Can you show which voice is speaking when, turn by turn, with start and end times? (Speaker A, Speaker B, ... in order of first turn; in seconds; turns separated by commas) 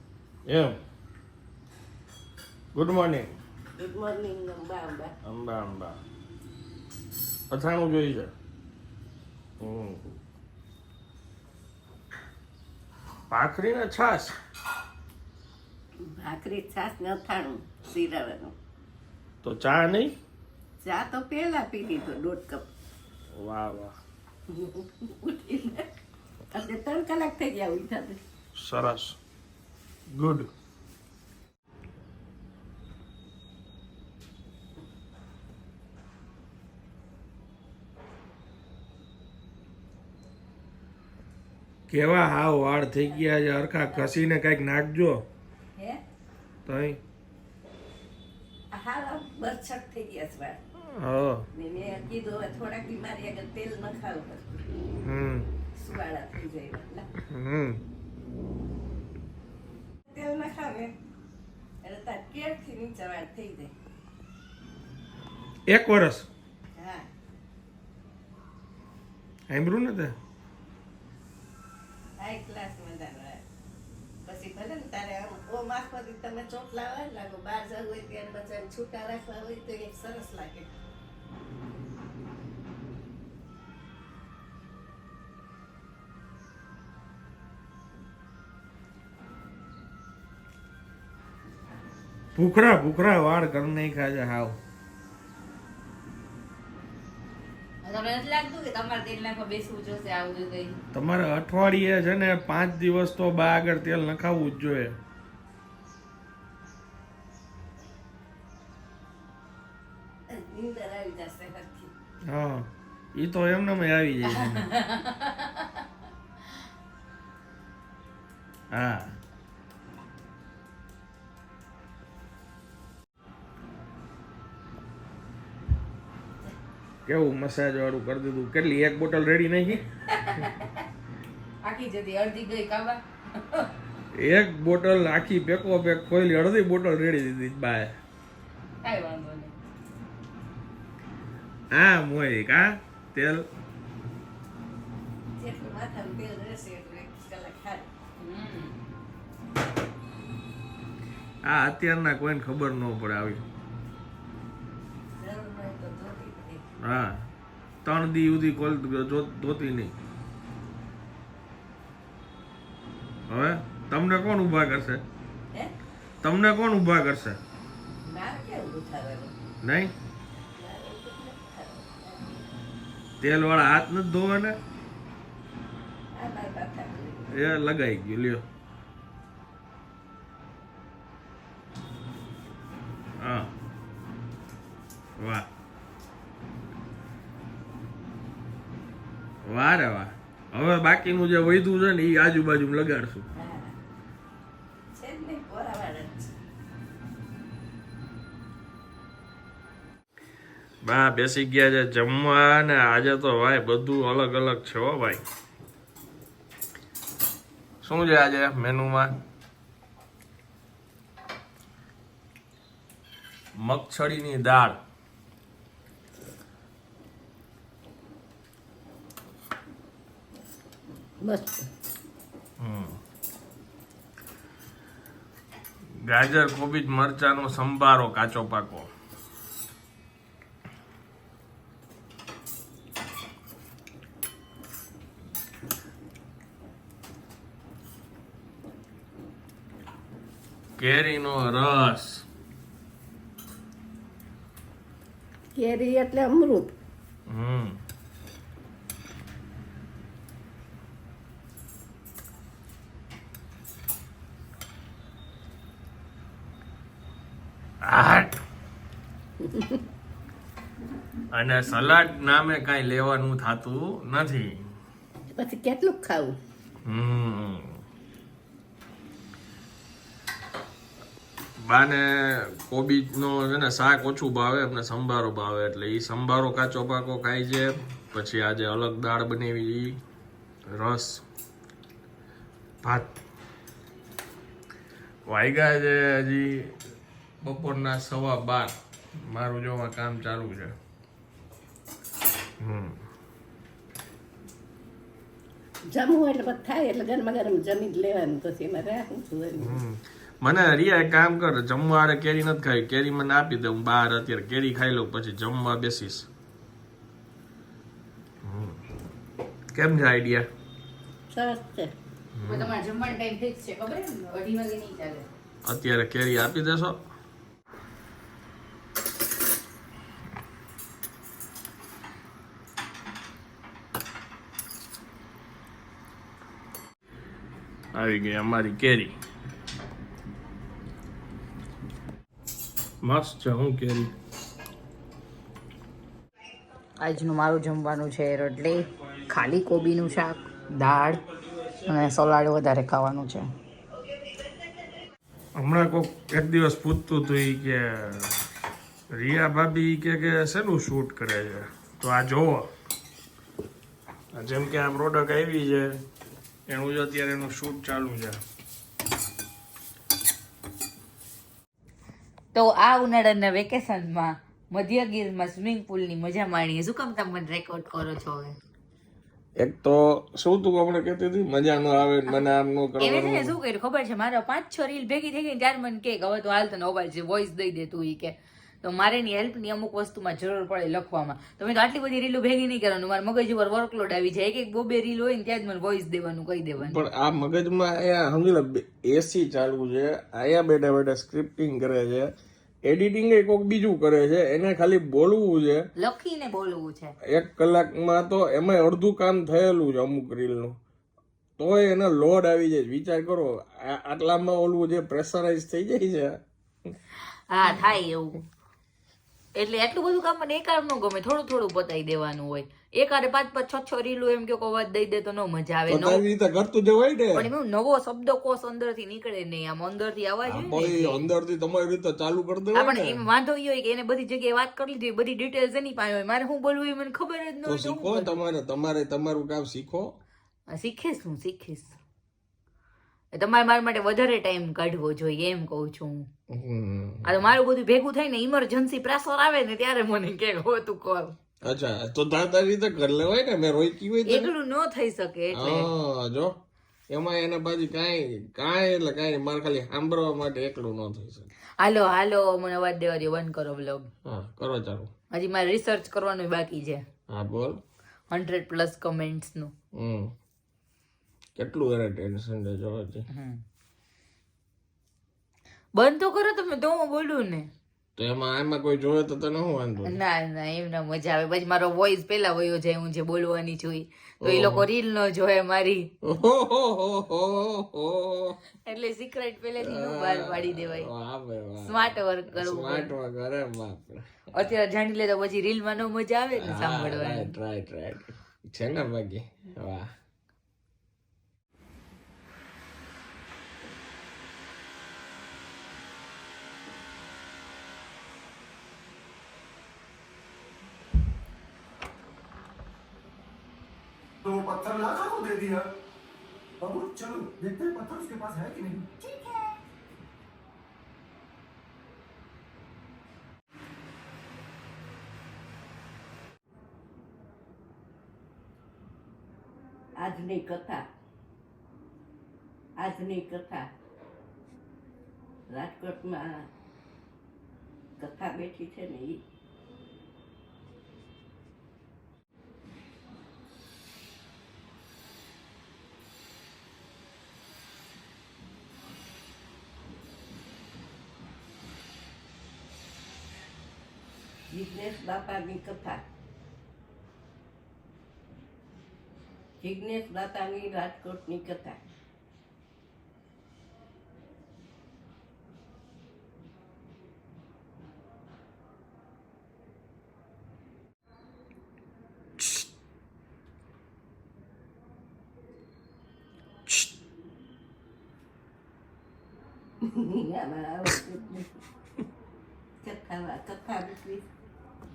Speaker A: 0.5-0.8, Speaker A: 2.7-3.3, Speaker B: 3.8-5.1, Speaker A: 5.2-6.0, Speaker A: 7.5-8.3, Speaker A: 9.6-10.0, Speaker A: 13.3-14.3, Speaker B: 16.0-18.5, Speaker A: 19.4-20.1, Speaker B: 20.8-22.7, Speaker A: 23.4-24.0, Speaker B: 24.5-25.9, Speaker B: 26.5-28.2, Speaker A: 28.6-29.2, Speaker A: 30.1-30.5, Speaker A: 41.9-45.3, Speaker A: 46.7-47.0, Speaker B: 48.7-50.6, Speaker A: 50.9-51.5, Speaker B: 51.5-54.6, Speaker A: 55.0-55.5, Speaker B: 55.8-57.1, Speaker A: 57.3-57.8, Speaker B: 60.1-60.9, Speaker B: 61.8-63.7, Speaker A: 65.7-66.3, Speaker B: 66.8-67.1, Speaker A: 69.5-70.2, Speaker B: 72.2-73.4, Speaker B: 74.2-80.7, Speaker A: 92.3-94.6, Speaker C: 97.8-100.8, Speaker A: 100.9-105.0, Speaker B: 110.3-111.9, Speaker A: 112.3-114.7, Speaker C: 114.3-115.7, Speaker A: 118.7-119.2, Speaker A: 127.1-129.8, Speaker C: 130.1-130.7, Speaker C: 131.6-133.7, Speaker A: 134.2-137.9, Speaker C: 138.8-139.5, Speaker A: 141.7-143.5, Speaker B: 145.4-147.9, Speaker C: 148.2-148.8, Speaker A: 151.4-153.4, Speaker B: 155.2-156.8, Speaker A: 156.8-157.2, Speaker A: 157.8-160.0, Speaker A: 163.3-165.0, Speaker A: 166.2-167.4, Speaker B: 168.1-169.3, Speaker A: 169.6-169.9, Speaker B: 170.6-172.4, Speaker A: 173.2-174.6, Speaker B: 176.1-177.3, Speaker A: 177.3-178.4, Speaker A: 183.2-183.5, Speaker A: 185.2-185.5, Speaker A: 189.4-193.3, Speaker B: 193.3-193.8, Speaker B: 194.9-196.3, Speaker A: 200.8-205.2, Speaker A: 207.8-209.2, Speaker A: 213.6-214.8, Speaker B: 221.2-221.7, Speaker A: 222.6-223.0, Speaker A: 226.0-228.9, Speaker A: 240.8-242.2, Speaker B: 245.6-246.7, Speaker A: 247.3-247.8, Speaker A: 257.8-258.4, Speaker B: 259.4-259.8, Speaker A: 261.3-264.6, Speaker B: 265.3-266.4, Speaker A: 266.9-267.8, Speaker A: 271.6-280.0, Speaker A: 280.7-281.2, Speaker A: 282.8-283.1, Speaker A: 285.3-286.7, Speaker A: 287.4-290.8, Speaker A: 292.6-293.0, Speaker B: 295.9-299.8, Speaker A: 299.6-306.3, Speaker A: 308.4-308.8, Speaker A: 309.7-310.5, Speaker B: 311.3-311.9, Speaker A: 312.4-312.7, Speaker C: 312.4-315.3, Speaker A: 315.6-317.0, Speaker A: 327.9-329.1, Speaker A: 333.0-334.1, Speaker C: 337.0-341.2, Speaker A: 341.4-341.9, Speaker C: 341.9-343.5, Speaker A: 345.6-348.4, Speaker A: 349.1-352.7, Speaker A: 354.3-356.0, Speaker A: 356.7-358.4, Speaker C: 362.5-368.6, Speaker A: 369.6-373.6, Speaker C: 373.0-387.0, Speaker A: 386.8-392.3, Speaker A: 392.9-395.9, Speaker C: 396.0-397.2, Speaker A: 397.2-400.8, Speaker A: 401.6-406.4, Speaker C: 407.4-408.4, Speaker C: 409.6-416.2, Speaker A: 415.9-417.5, Speaker C: 417.3-421.2, Speaker A: 420.4-423.2, Speaker C: 422.7-428.4, Speaker A: 427.6-430.1, Speaker C: 430.7-432.0, Speaker C: 433.3-436.3, Speaker A: 436.5-437.4, Speaker C: 437.2-441.4, Speaker A: 441.6-444.5, Speaker C: 444.3-445.9, Speaker A: 445.5-446.5, Speaker A: 447.1-451.5, Speaker C: 451.8-454.1, Speaker A: 454.2-455.1, Speaker C: 455.3-457.0, Speaker A: 457.3-457.8, Speaker C: 458.3-459.7, Speaker A: 459.9-460.3, Speaker A: 461.6-463.3, Speaker C: 463.3-463.6, Speaker C: 466.0-467.7, Speaker A: 468.2-470.2, Speaker C: 470.0-476.1, Speaker A: 474.4-474.9, Speaker A: 476.2-478.6, Speaker C: 478.9-481.1, Speaker A: 479.8-484.5, Speaker C: 481.8-483.1, Speaker C: 484.5-487.6, Speaker A: 486.6-490.1, Speaker D: 504.4-505.9, Speaker D: 506.8-509.1, Speaker B: 520.2-521.0, Speaker B: 523.0-523.9, Speaker B: 525.7-526.7, Speaker B: 528.2-529.4, Speaker B: 544.7-546.2, Speaker B: 549.8-552.0, Speaker B: 570.0-571.7, Speaker B: 573.0-574.5